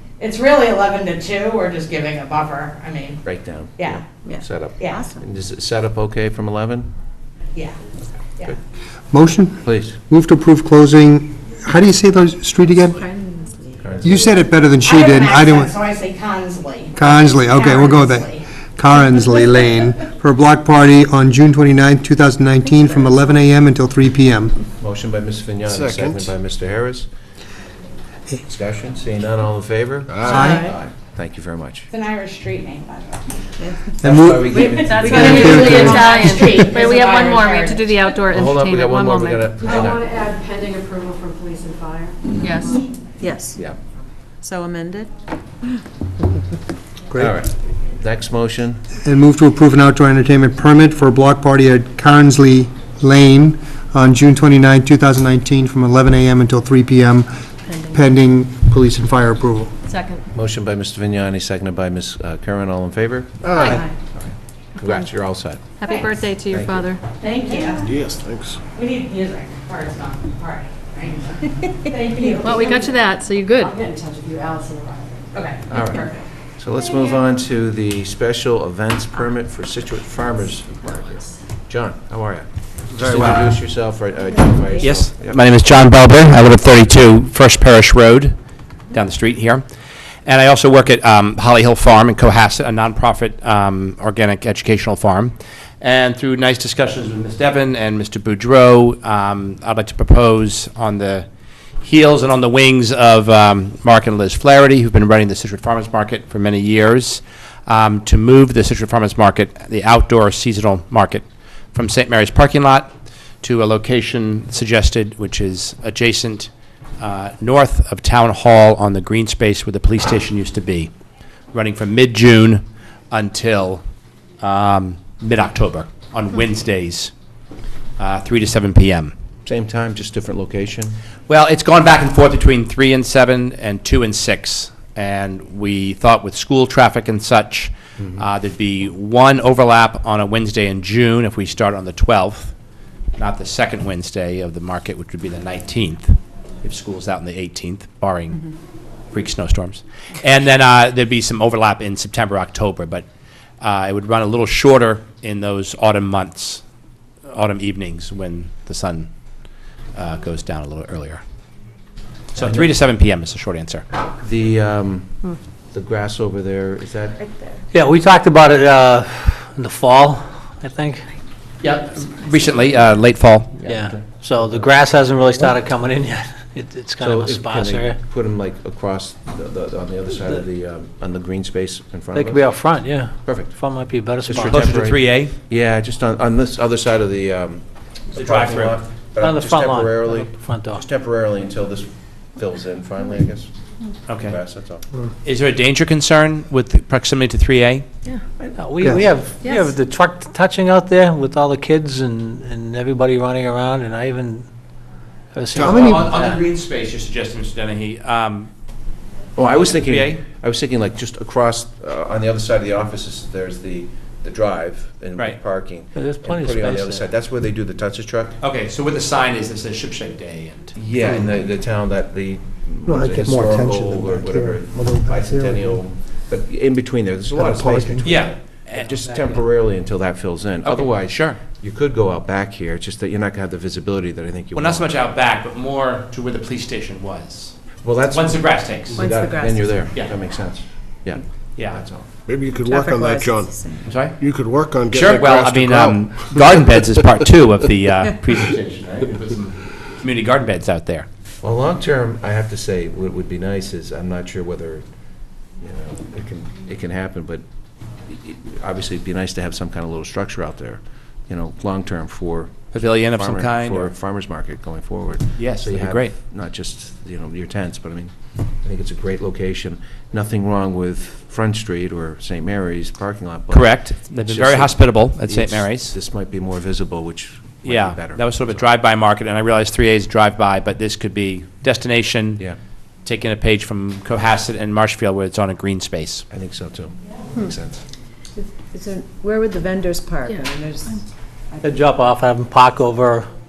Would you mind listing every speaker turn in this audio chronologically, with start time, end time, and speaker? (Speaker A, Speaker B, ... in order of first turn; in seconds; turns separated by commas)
Speaker A: 0.2-3.2, Speaker B: 3.2-6.9, Speaker A: 3.8-4.0, Speaker C: 4.2-5.2, Speaker D: 9.1-13.0, Speaker B: 9.6-10.0, Speaker C: 12.7-14.1, Speaker B: 13.8-14.4, Speaker D: 14.0-15.7, Speaker A: 14.8-18.4, Speaker D: 16.9-24.6, Speaker B: 24.8-27.1, Speaker E: 25.6-26.4, Speaker B: 28.5-31.9, Speaker E: 30.1-30.5, Speaker D: 30.2-30.7, Speaker C: 30.3-30.8, Speaker A: 31.9-33.3, Speaker C: 33.6-34.8, Speaker D: 34.0-36.6, Speaker B: 34.0-36.2, Speaker F: 34.8-39.5, Speaker A: 34.9-38.2, Speaker B: 38.3-40.1, Speaker G: 39.7-42.1, Speaker F: 42.4-42.8, Speaker C: 43.2-43.6, Speaker C: 44.4-45.1, Speaker D: 47.1-47.4, Speaker B: 47.2-48.8, Speaker D: 49.0-59.7, Speaker F: 59.9-60.2, Speaker B: 60.3-65.7, Speaker E: 63.4-63.8, Speaker C: 63.6-64.0, Speaker F: 65.8-67.0, Speaker A: 65.9-66.1, Speaker B: 66.5-66.9, Speaker A: 67.2-68.0, Speaker C: 67.4-67.8, Speaker E: 67.8-68.6, Speaker A: 68.8-73.0, Speaker F: 72.4-73.8, Speaker G: 73.9-75.2, Speaker A: 75.3-76.2, Speaker B: 75.7-85.4, Speaker H: 83.0-83.5, Speaker C: 84.3-84.9, Speaker H: 84.8-88.4, Speaker H: 88.9-89.7, Speaker H: 90.2-101.3, Speaker H: 101.8-112.9, Speaker H: 113.4-120.9, Speaker H: 121.5-123.8, Speaker H: 124.4-127.1, Speaker H: 128.0-129.1, Speaker B: 129.4-131.0, Speaker H: 131.3-142.5, Speaker B: 138.0-138.2, Speaker H: 143.2-148.4, Speaker H: 149.1-153.1, Speaker H: 153.6-156.6, Speaker H: 157.3-159.1, Speaker H: 159.9-161.2, Speaker H: 162.3-163.9, Speaker B: 162.4-162.7, Speaker B: 164.2-165.2, Speaker B: 165.7-167.2, Speaker C: 167.2-167.6, Speaker I: 167.8-171.0, Speaker H: 171.6-173.9, Speaker I: 173.7-178.0, Speaker B: 173.7-174.6, Speaker B: 177.0-182.6, Speaker I: 182.3-184.4, Speaker B: 183.2-183.6, Speaker B: 184.2-193.5, Speaker H: 184.3-185.3, Speaker H: 188.1-188.8, Speaker I: 189.2-190.8, Speaker H: 194.1-194.4, Speaker B: 194.2-194.8, Speaker H: 195.2-197.9, Speaker I: 198.6-204.5, Speaker A: 198.9-199.7, Speaker I: 205.3-205.7, Speaker E: 205.5-206.2, Speaker H: 205.6-208.5, Speaker D: 205.6-206.1, Speaker B: 209.4-218.4, Speaker H: 209.7-210.2, Speaker I: 216.1-216.6, Speaker H: 218.4-221.3, Speaker B: 220.8-234.8, Speaker D: 222.9-225.8, Speaker D: 227.3-228.1, Speaker H: 228.0-229.4, Speaker H: 230.6-231.4, Speaker H: 234.5-237.6, Speaker B: 237.8-242.1, Speaker H: 238.1-239.1, Speaker C: 238.9-239.9, Speaker H: 241.6-241.8, Speaker E: 242.3-247.1, Speaker C: 242.6-244.1, Speaker H: 243.8-244.3, Speaker H: 244.9-251.1, Speaker B: 251.4-254.8, Speaker B: 255.6-257.4, Speaker B: 258.1-278.7, Speaker H: 262.7-263.9, Speaker H: 265.4-266.2, Speaker H: 273.5-275.9, Speaker H: 277.6-282.4, Speaker H: 283.1-286.2, Speaker B: 286.3-287.8, Speaker C: 288.4-292.0, Speaker I: 291.6-293.3